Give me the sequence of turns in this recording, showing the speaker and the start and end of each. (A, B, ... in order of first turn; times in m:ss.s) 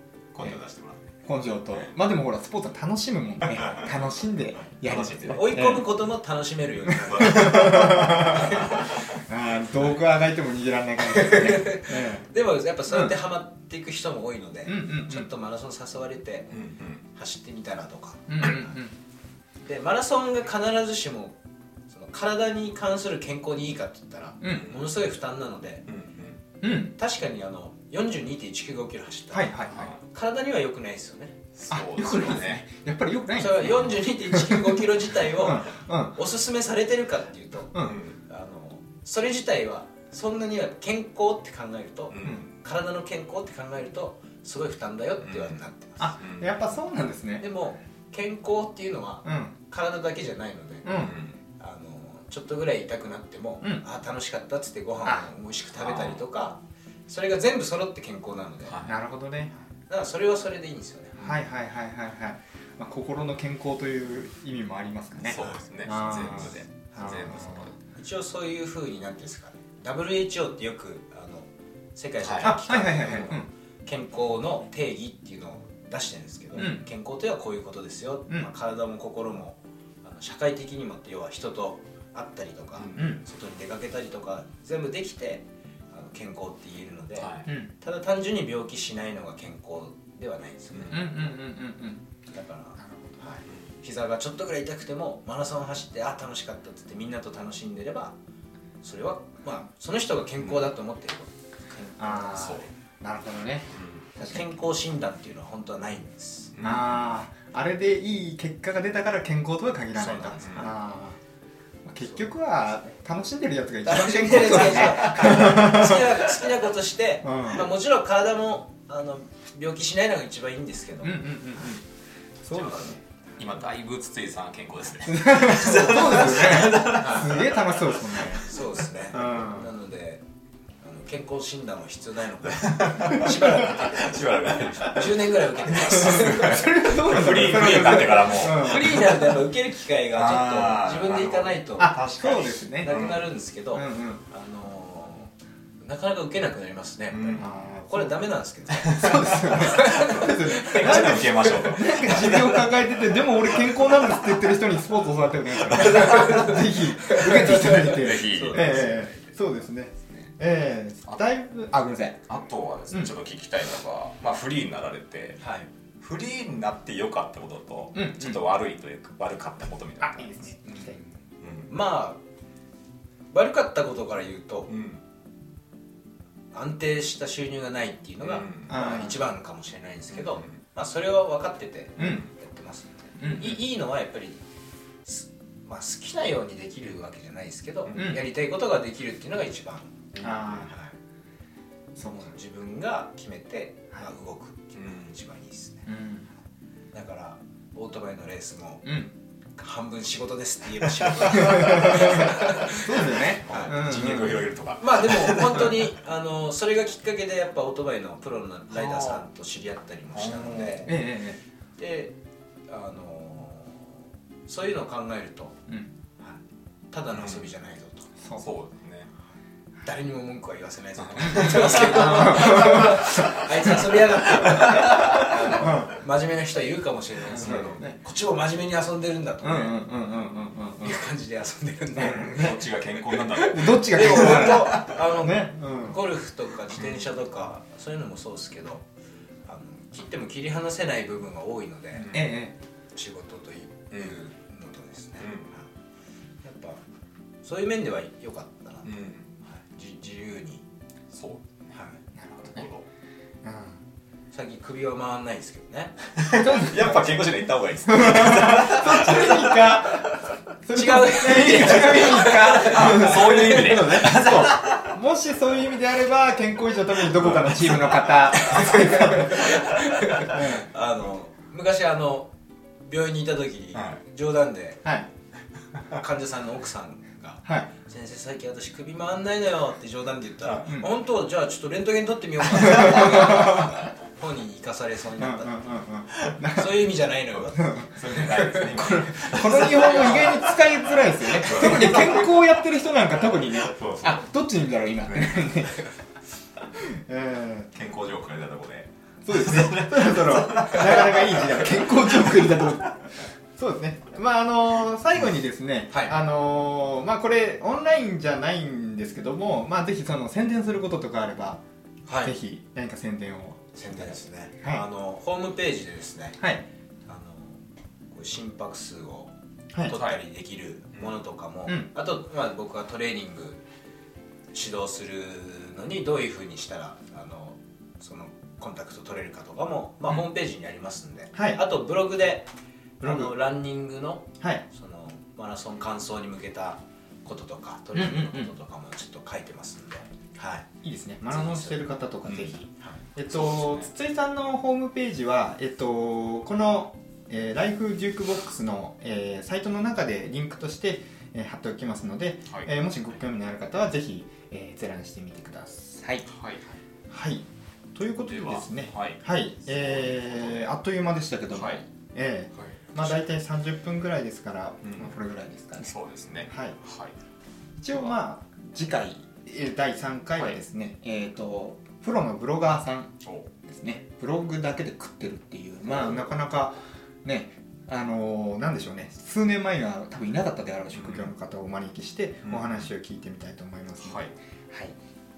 0:00.3-0:01.1 A
0:01.3-0:05.9 B
0:03.6-0:03.9 A
0:04.7-0:05.5 A
0:05.3-0:08.9 C
0:06.9-0:12.3 B
0:07.1-0:09.0 A
0:11.0-0:16.5 C
0:12.9-0:13.1 B
0:14.6-0:15.3 B
0:16.5-0:17.0 A
0:17.1-0:18.8 C
0:18.3-0:18.9 B
0:19.6-0:21.3 C
0:21.9-0:25.8 C
0:24.4-0:24.7 B
0:24.5-0:24.8 A
0:25.9-0:26.4 A
0:26.6-0:26.9 B
0:27.0-0:31.4 C
0:29.3-0:29.7 B
0:29.7-0:30.0 A
0:31.5-0:32.6 A
0:31.7-0:36.2 B
0:33.3-0:46.1 C
0:33.6-0:34.0 A
0:37.7-0:38.0 B
0:37.8-0:38.2 A
0:42.1-0:42.5 A
0:45.2-0:45.6 A
0:46.0-0:47.4 B
0:46.2-0:46.6 A
0:47.4-0:51.0 C
0:49.2-0:49.5 B
0:50.8-0:51.1 B
0:50.9-0:51.4 A
0:51.6-0:58.8 C
0:55.7-0:56.2 A
0:58.6-0:59.0 A
0:58.8-0:59.5 B
0:59.8-1:01.4 C
1:01.2-1:07.7 B
1:05.2-1:07.8 A
1:05.4-1:05.6 C
1:07.9-1:31.3 C
1:12.2-1:12.6 A
1:12.4-1:13.5 B
1:16.5-1:16.8 B
1:22.8-1:23.1 A
1:22.9-1:23.2 B
1:27.2-1:27.5 A
1:27.4-1:27.7 B
1:30.7-1:31.0 A
1:30.9-1:32.0 B
1:32.3-1:38.1 C
1:32.8-1:33.4 B
1:33.4-1:33.7 A
1:38.8-1:42.6 C
1:40.4-1:40.7 A
1:42.0-1:44.5 B
1:42.3-1:42.7 A
1:43.7-1:44.1 A
1:44.2-1:46.6 C
1:46.5-1:47.1 A
1:46.6-1:51.2 B
1:49.9-1:50.7 C
1:50.4-1:50.7 A
1:51.8-1:56.2 B
1:53.8-2:01.7 C
1:57.2-1:57.7 B
2:01.0-2:01.8 B
2:02.4-2:03.0 B
2:02.5-2:03.0 C
2:03.4-2:08.6 A
2:05.1-2:08.4 B
2:05.5-2:07.5 C
2:08.4-2:10.2 C
2:09.1-2:09.7 B
2:10.8-2:14.2 C
2:12.5-2:19.4 A
2:14.7-2:16.6 C
2:15.9-2:19.1 B
2:17.6-2:31.9 C
2:20.1-2:23.4 A
2:21.8-2:23.1 B
2:23.7-2:24.2 B
2:27.1-2:27.5 A
2:27.4-2:28.2 B
2:28.7-2:32.7 A
2:29.0-2:42.2 B
2:35.6-2:36.4 A
2:35.8-2:39.2 C
2:37.5-2:39.1 A
2:42.3-2:45.4 A
2:45.4-2:45.7 C
2:46.0-2:50.3 A
2:47.9-2:48.4 B
2:50.0-2:51.0 B
2:50.6-2:51.1 C
2:51.4-2:51.7 A
2:51.7-2:52.2 C
2:53.3-2:54.7 C
2:54.7-2:55.0 A
2:56.5-3:04.4 C
2:58.2-2:58.8 A
2:58.7-2:59.2 B
3:00.2-3:00.6 A
3:02.0-3:02.2 B
3:02.0-3:02.3 A
3:03.2-3:03.6 B
3:05.0-3:10.1 C
3:07.9-3:08.2 A
3:07.9-3:08.2 B
3:10.1-3:10.7 A
3:10.2-3:10.7 B
3:10.6-3:10.9 C
3:12.0-3:12.3 B
3:12.0-3:15.9 C
3:14.8-3:15.1 A
3:15.9-3:16.3 B
3:16.9-3:19.0 C
3:18.8-3:19.1 B
3:19.6-3:23.8 C
3:21.3-3:24.4 B
3:23.1-3:25.9 A
3:24.8-3:31.1 C
3:28.7-3:29.2 A
3:30.1-3:30.9 A
3:30.8-3:31.4 B
3:31.8-3:32.2 C
3:32.7-3:35.6 C
3:36.9-3:38.1 C
3:37.1-3:37.5 A
3:38.2-3:38.4 B
3:38.4-3:39.1 A
3:39.8-3:49.8 C
3:41.0-3:43.8 A
3:41.2-3:46.0 B
3:44.5-3:45.4 A
3:47.3-3:48.0 B
3:47.4-3:47.7 A
3:49.4-3:51.0 B
3:50.8-3:58.8 C
3:52.0-3:52.7 B
3:52.0-3:55.0 A
3:53.3-3:56.0 B
3:56.8-3:57.1 A
3:59.4-4:02.2 C
4:01.9-4:02.3 A
4:02.1-4:02.5 B
4:02.9-4:05.7 C
4:03.9-4:04.2 A
4:05.2-4:05.5 A
4:06.4-4:06.8 C
4:07.4-4:10.6 C
4:08.8-4:09.3 A
4:11.1-4:12.8 A
4:11.7-4:12.0 C
4:12.2-4:12.6 B
4:13.4-4:13.8 B
4:14.3-4:16.1 C
4:16.2-4:20.3 A
4:16.3-4:17.1 B
4:17.8-4:29.6 B
4:20.7-4:24.0 C
4:21.4-4:25.0 A
4:27.1-4:28.2 A
4:28.3-4:32.3 C
4:29.5-4:30.2 A
4:30.2-4:30.7 B
4:32.8-4:34.8 C
4:33.7-4:34.0 A
4:35.9-4:45.6 C
4:37.4-4:37.7 B
4:42.5-4:43.8 B
4:45.2-4:46.8 B
4:46.5-4:50.5 C
4:47.6-4:47.9 B
4:47.9-4:50.5 A
4:48.6-4:55.8 B
4:51.4-4:52.5 A
4:53.3-4:54.2 A
4:55.1-4:55.5 A
4:56.7-4:57.7 B
4:57.7-5:02.9 A
4:59.2-5:11.6 B
5:05.9-5:06.2 C
5:12.0-5:12.3 C
5:12.2-5:14.8 B
5:13.8-5:16.4 C
5:17.1-5:19.3 C
5:19.8-5:23.6 C
5:24.5-5:40.7 C
5:31.3-5:31.6 B
5:33.0-5:33.3 B
5:37.9-5:38.5 B
5:40.8-5:56.3 B
5:41.3-5:41.8 C
5:42.2-5:42.6 A
5:43.3-5:43.9 A
5:56.3-5:56.8 A
5:57.1-6:05.9 B
5:58.3-5:59.2 A
5:59.8-6:00.6 A
6:01.5-6:01.8 A
6:02.5-6:03.2 A
6:04.8-6:05.1 A
6:05.8-6:07.1 A
6:06.5-6:06.8 B
6:07.8-6:25.0 B
6:13.2-6:13.5 A
6:15.9-6:16.2 A
6:20.9-6:21.3 A
6:22.4-6:22.9 A
6:24.0-6:24.3 A